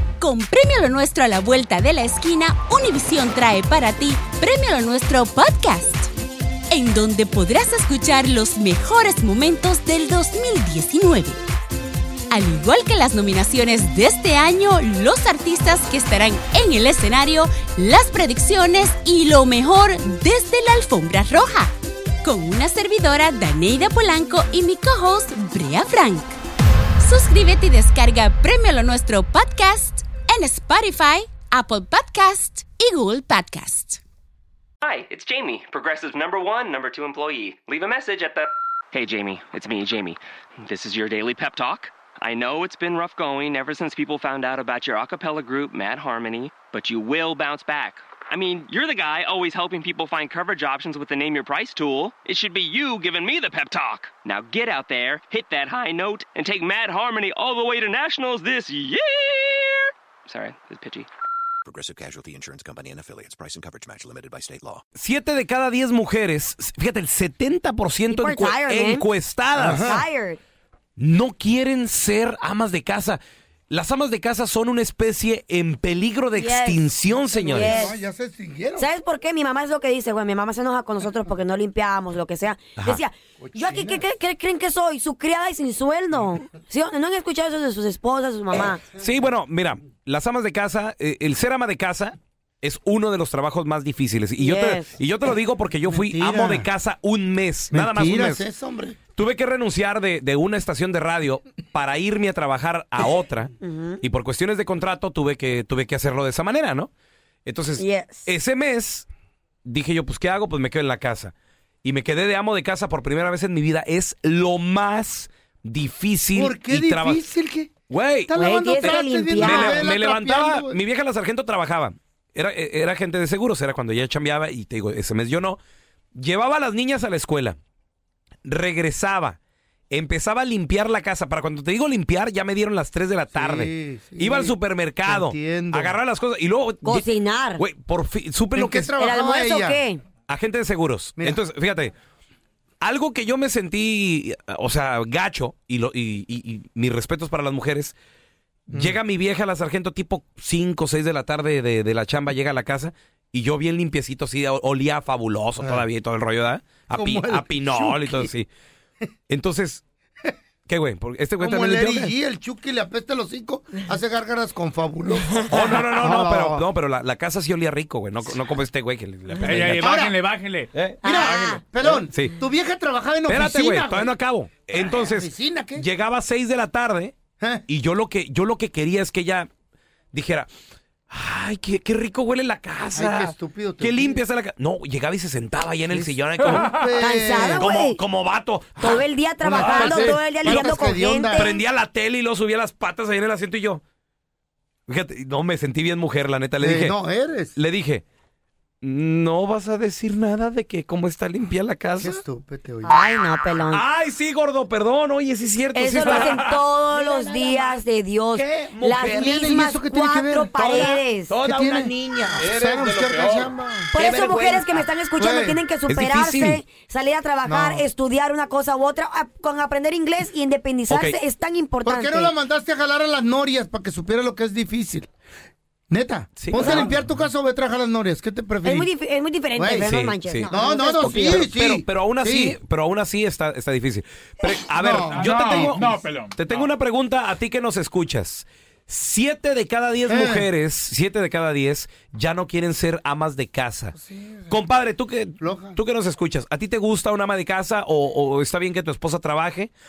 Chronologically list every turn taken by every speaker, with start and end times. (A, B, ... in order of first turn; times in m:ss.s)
0:00.2-0:06.1 A
0:06.7-0:11.4 A
0:12.3-0:21.7 A
0:22.2-0:26.4 A
0:27.0-0:34.0 A
0:34.8-1:01.1 B
1:01.6-1:04.8 C
1:05.0-1:10.0 D
1:08.1-1:09.1 E
1:09.6-1:10.0 F
1:09.8-1:10.4 E
1:11.0-1:17.8 D
1:16.3-1:18.0 E
1:17.3-1:18.9 F
1:18.8-1:28.9 E
1:23.4-1:24.0 F
1:29.0-1:38.5 D
1:34.4-1:35.0 E
1:35.9-1:36.7 F
1:37.7-1:39.0 F
1:39.1-1:46.9 D
1:43.6-1:44.0 E
1:47.4-1:49.1 D
1:47.8-1:48.3 E
1:49.6-1:57.2 D
1:56.4-1:57.7 F
1:57.9-2:05.6 D
1:58.3-2:00.8 F
1:58.3-1:59.9 E
2:06.1-2:07.6 D
2:08.4-2:09.4 D
2:09.9-2:18.9 D
2:13.4-2:16.0 F
2:16.8-2:17.6 E
2:18.6-2:19.8 F
2:19.0-2:20.0 E
2:20.3-2:21.9 D
2:22.8-2:28.0 D
2:28.7-2:38.5 D
2:28.7-2:29.0 F
2:36.9-2:38.3 F
2:39.3-2:39.8 D
2:40.7-2:42.1 D
2:41.4-2:46.7 F
2:45.5-2:49.9 D
2:49.3-2:51.6 G
2:49.8-2:50.2 F
2:50.7-2:51.0 D
2:51.0-2:51.6 E
2:51.0-2:54.1 F
2:51.8-2:52.4 D
2:53.3-2:59.5 D
2:54.7-2:55.9 F
2:57.4-2:57.6 F
3:00.1-3:00.5 D
3:01.1-3:06.7 D
3:03.0-3:04.2 F
3:05.9-3:07.7 F
3:06.5-3:06.9 G
3:07.0-3:08.0 E
3:07.4-3:09.0 D
3:08.8-3:11.5 E
3:09.4-3:11.5 F
3:09.6-3:10.3 D
3:11.4-3:13.8 D
3:14.9-3:17.0 D
3:16.6-3:17.5 F
3:17.6-3:18.0 D
3:18.8-3:22.2 D
3:22.0-3:23.0 F
3:22.8-3:23.9 E
3:23.7-3:26.6 D
3:25.7-3:31.4 E
3:26.2-3:27.8 G
3:28.6-3:29.1 G
3:29.0-3:30.5 F
3:30.8-3:34.7 G
3:31.4-3:34.0 F
3:33.9-3:42.3 E
3:35.2-3:35.6 F
3:35.9-3:36.6 D
3:37.4-3:37.8 F
3:40.9-3:41.2 D
3:41.8-3:45.1 F
3:45.9-3:48.9 F
3:46.4-3:46.9 D
3:46.6-3:46.8 E
3:48.6-3:51.5 E
3:49.6-3:49.9 F
3:49.8-4:04.0 D
3:50.5-3:52.6 F
3:54.7-3:56.0 F
3:54.9-3:56.7 G
4:00.0-4:00.5 F
4:04.0-4:04.6 F
4:04.5-4:09.7 D
4:05.4-4:05.8 F